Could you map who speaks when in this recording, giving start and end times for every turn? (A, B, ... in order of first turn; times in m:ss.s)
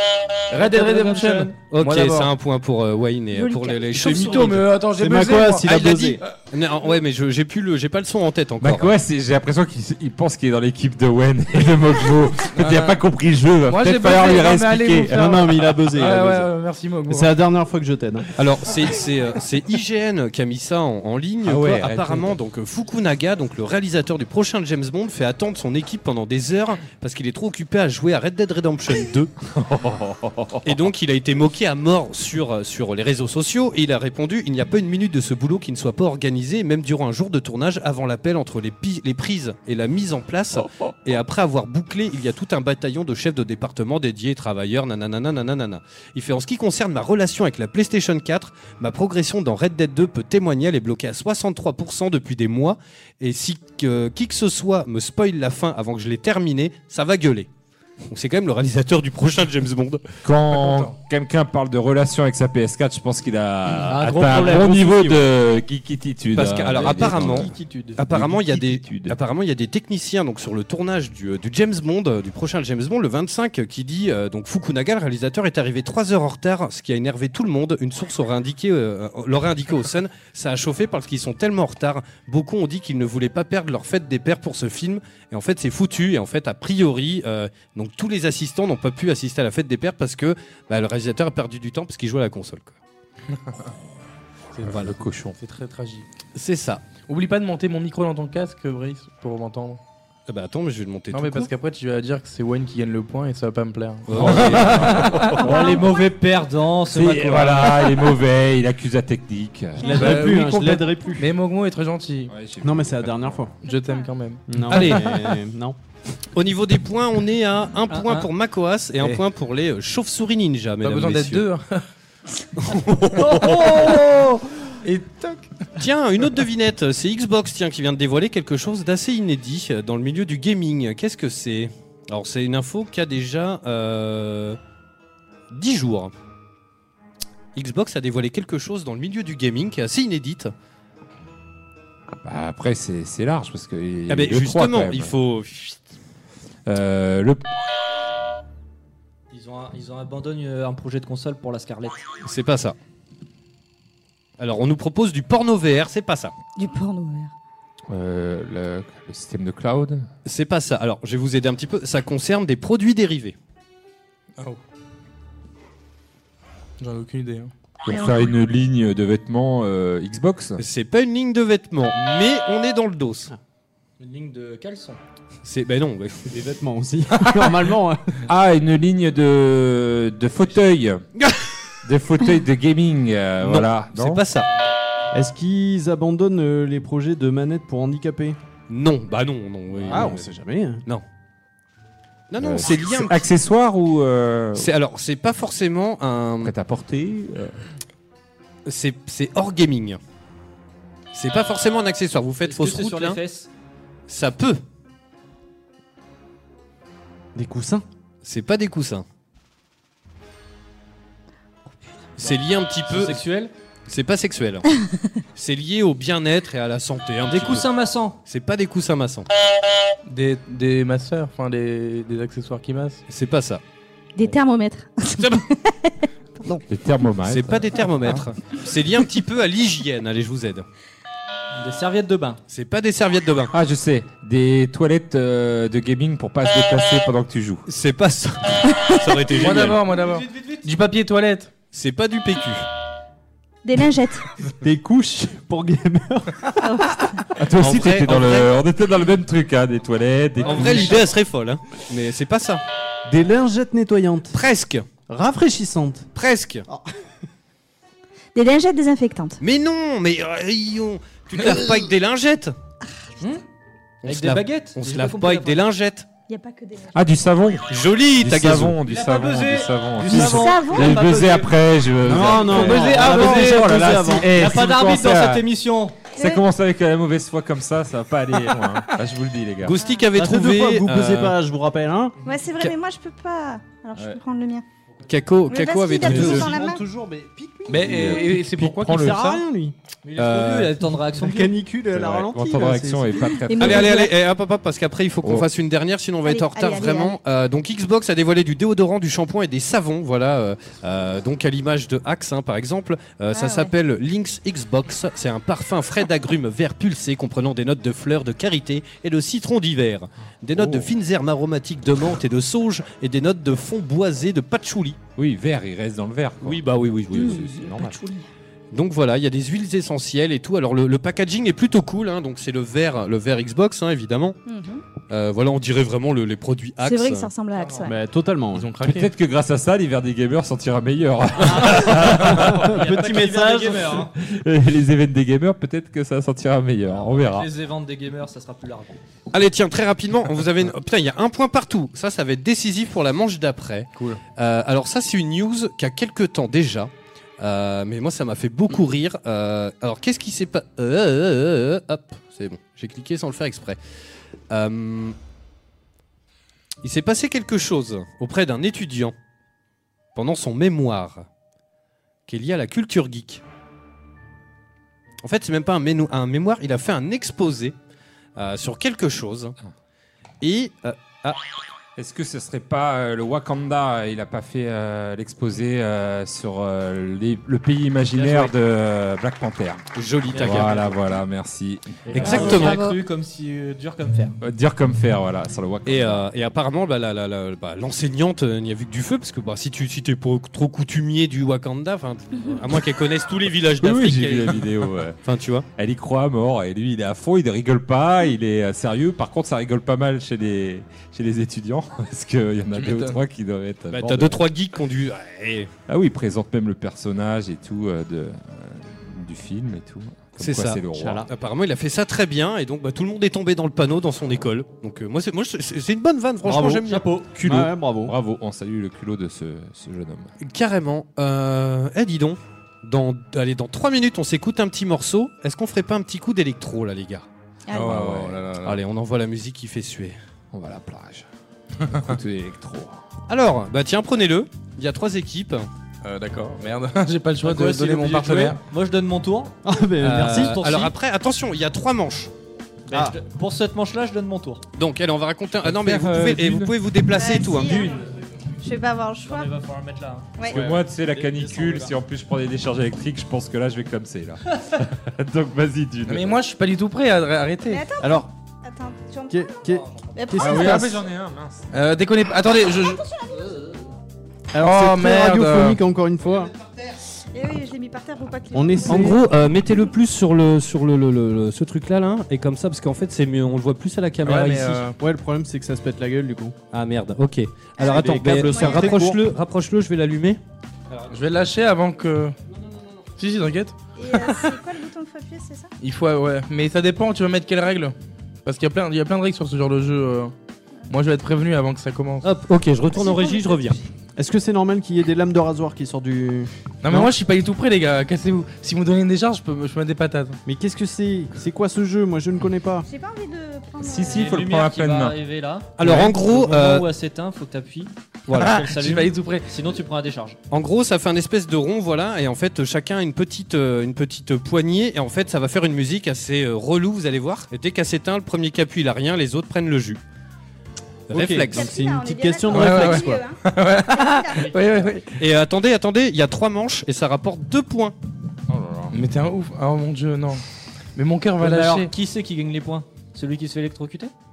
0:00.5-0:02.3 A
0:00.5-0:01.5 B
0:01.6-0:04.7 C
0:03.3-0:04.1 D
0:03.9-0:06.2 A
0:04.0-0:06.2 E
0:05.6-0:08.9 C
0:08.6-0:15.5 F
0:12.6-0:13.0 A
0:13.7-0:17.4 A
0:15.1-0:16.5 E
0:17.1-0:18.3 E
0:18.4-0:29.3 C
0:21.4-0:22.4 F
0:29.5-0:30.8 F
0:30.6-0:57.5 C
0:40.6-0:40.9 F
0:58.1-1:00.0 C
1:00.2-1:07.5 F
1:03.9-1:05.2 B
1:06.3-1:32.8 C
1:07.1-1:08.0 B
1:08.1-1:09.2 F
1:34.5-1:36.0 A
1:34.6-1:35.4 F
1:36.3-1:36.8 C
1:37.1-1:39.8 A
1:40.3-1:41.5 C
1:41.1-1:45.4 A
1:44.1-1:45.2 C
1:44.2-1:45.7 F
1:45.4-1:48.0 B
1:45.4-1:45.9 D
1:46.9-1:50.3 F
1:49.8-1:51.3 E
1:49.9-1:52.3 A
1:52.3-1:53.6 F
1:52.6-1:53.5 E
1:53.6-1:54.8 A
1:53.6-1:54.1 D
1:54.5-1:55.8 E
1:54.7-1:55.2 C
1:56.3-2:01.5 C
1:57.9-1:58.3 B
2:00.8-2:01.8 A
2:02.6-2:03.7 C
2:03.2-2:04.4 B
2:03.3-2:04.1 A
2:04.8-2:05.5 A
2:05.8-2:14.6 C
2:15.5-2:16.1 C
2:17.5-2:20.5 C
2:22.1-2:25.1 F
2:24.1-2:25.8 C
2:26.7-2:27.4 F
2:29.3-2:32.0 B
2:32.2-2:32.8 C
2:34.4-2:36.3 C
2:36.6-2:37.3 D
2:37.9-2:40.1 F
2:40.2-2:43.3 C
2:46.8-2:47.5 A
2:47.8-2:50.6 F
2:47.9-2:48.2 D
2:50.6-2:53.3 C
2:54.0-2:55.0 B
2:55.4-2:56.3 C
2:56.3-2:58.1 E
2:58.3-3:01.0 F
3:01.8-3:04.2 F
3:03.4-3:04.5 C
3:05.1-3:08.4 E
3:08.7-3:10.3 C
3:09.9-3:10.8 E
3:12.3-3:13.3 C
3:12.4-3:14.7 F
3:14.6-3:16.5 C
3:16.4-3:17.6 F
3:18.6-3:20.0 C
3:21.1-3:23.2 C
3:22.4-3:23.5 B
3:24.1-3:24.6 C
3:27.3-3:27.8 E
3:28.2-3:29.0 C
3:32.2-3:33.2 C
3:32.9-3:33.5 B
3:33.9-3:34.7 C
3:35.4-3:37.7 C
3:37.3-3:38.2 B
3:38.2-3:39.3 C
3:40.1-3:43.0 A
3:43.1-3:43.6 C
3:44.1-3:46.6 D
3:45.2-3:45.4 C
3:46.7-3:48.2 F
3:47.2-3:50.6 C
3:51.6-3:52.4 B
3:52.5-3:53.5 C
3:53.5-3:57.6 F
3:57.7-3:59.8 C
3:59.2-4:01.5 A
3:59.9-4:00.7 B
4:01.7-4:02.7 C
4:03.6-4:04.2 D
4:04.6-4:06.9 E
4:06.6-4:07.2 D
4:07.4-4:11.1 F
4:07.6-4:08.5 C
4:10.4-4:12.6 C
4:13.0-4:14.4 E
4:14.3-4:14.8 C
4:15.1-4:16.1 E
4:16.1-4:16.7 C
4:18.3-4:19.4 D
4:19.4-4:22.5 C
4:21.4-4:21.7 A
4:24.0-4:26.1 C
4:24.0-4:25.6 B
4:26.3-4:27.0 D
4:26.9-4:35.4 F
4:27.7-4:28.8 C
4:28.8-4:31.6 B
4:30.1-4:31.0 D
4:32.0-4:34.3 E
4:32.5-4:34.0 A
4:34.2-4:36.0 B
4:36.2-4:36.4 D
4:36.2-4:39.8 F
4:39.6-4:41.4 C
4:39.8-4:40.1 D
4:40.1-4:42.2 E
4:42.2-4:44.6 D
4:45.1-4:46.6 C
4:45.5-4:46.8 D
4:46.0-4:49.7 E
4:46.0-4:46.6 F
4:47.6-4:49.4 A
4:47.8-4:49.4 F
4:50.0-4:51.5 B
4:50.2-4:50.8 C
4:51.1-4:53.2 E
4:51.9-4:54.0 F
4:53.3-4:54.1 D
4:53.6-5:15.0 C
4:55.2-4:55.5 F
4:56.2-4:57.2 D
5:03.3-5:03.7 D
5:10.5-5:10.9 F
5:15.2-5:18.0 F
5:16.4-5:17.5 C
5:17.1-5:18.3 D
5:18.7-5:24.4 C
5:24.4-5:24.8 D
5:25.1-5:27.3 C
5:26.8-5:28.0 D
5:27.5-5:27.9 B
5:27.8-5:28.7 E
5:28.5-5:29.1 A
5:28.8-5:32.8 F
5:31.4-5:34.1 B
5:31.8-5:34.1 E
5:34.2-5:37.5 F
5:37.0-5:39.0 B
5:39.3-5:53.8 C
5:54.5-5:55.2 C
5:56.8-5:59.1 C
6:00.1-6:01.2 C
6:02.3-6:03.4 C
6:05.2-6:07.7 C
6:08.4-6:09.5 C
6:10.4-6:11.4 C
6:12.0-6:22.8 F
6:18.1-6:18.5 B
6:19.9-6:20.9 C
6:20.3-6:20.7 B
6:22.0-6:24.4 B
6:22.2-6:22.8 C
6:22.2-6:23.0 D
6:24.4-6:26.2 F
6:25.8-6:34.6 C
6:33.8-6:35.2 F
6:35.2-6:35.6 C
6:35.8-6:44.4 F
6:42.7-6:43.2 A
6:43.9-6:45.7 C
6:45.9-6:51.3 F
6:50.4-6:57.7 C
6:50.9-6:51.2 E
6:56.4-6:58.1 E
6:56.9-6:57.3 B
6:58.0-7:00.3 F
7:00.4-7:07.2 C
7:07.7-7:07.9 D
7:07.7-7:08.8 A
7:07.7-7:08.4 F
7:08.6-7:10.2 C
7:10.5-7:11.3 F
7:11.9-7:13.0 F
7:13.3-7:15.6 C
7:16.0-7:18.6 A
7:17.4-7:20.9 B
7:19.6-7:20.5 E
7:20.0-7:22.3 C
7:22.9-7:24.6 B
7:24.8-7:27.9 C
7:25.6-7:26.8 F
7:27.1-7:28.0 D
7:27.6-7:28.1 B
7:28.6-7:29.5 D
7:29.2-7:31.9 B
7:30.4-7:36.4 F
7:36.1-7:37.8 A
7:37.6-7:40.8 D
7:38.0-7:38.3 E
7:39.3-7:41.0 E
7:40.4-7:41.7 F
7:40.4-7:40.8 A
7:41.7-7:43.1 A
7:42.6-7:43.8 D
7:44.5-7:46.5 E
7:44.6-7:45.8 A
7:47.3-7:49.2 D
7:48.5-7:49.2 E
7:48.8-7:54.8 C
7:54.2-7:55.0 A
7:55.0-7:56.6 E
7:56.7-8:00.4 C
7:57.8-7:59.0 D
7:57.8-7:59.2 E
8:01.1-8:02.3 A
8:03.2-8:04.6 A
8:04.0-8:05.7 D
8:05.8-8:10.3 A
8:10.9-8:12.3 A
8:12.2-8:13.8 C
8:12.9-8:13.8 D
8:14.2-8:17.1 E
8:16.8-8:20.4 A
8:20.4-8:22.9 E
8:22.8-8:24.3 D
8:23.8-8:25.2 F
8:24.0-8:30.4 B
8:25.8-8:26.9 C
8:28.3-8:28.6 C
8:28.3-8:29.5 A
8:30.5-8:40.0 C
8:41.1-8:41.7 C
8:41.1-8:43.3 E
8:41.5-8:44.8 D
8:42.5-8:45.2 A
8:45.2-8:47.9 C
8:48.5-8:49.0 F
8:48.9-8:50.4 A
8:51.0-8:51.9 A
8:51.4-8:54.1 B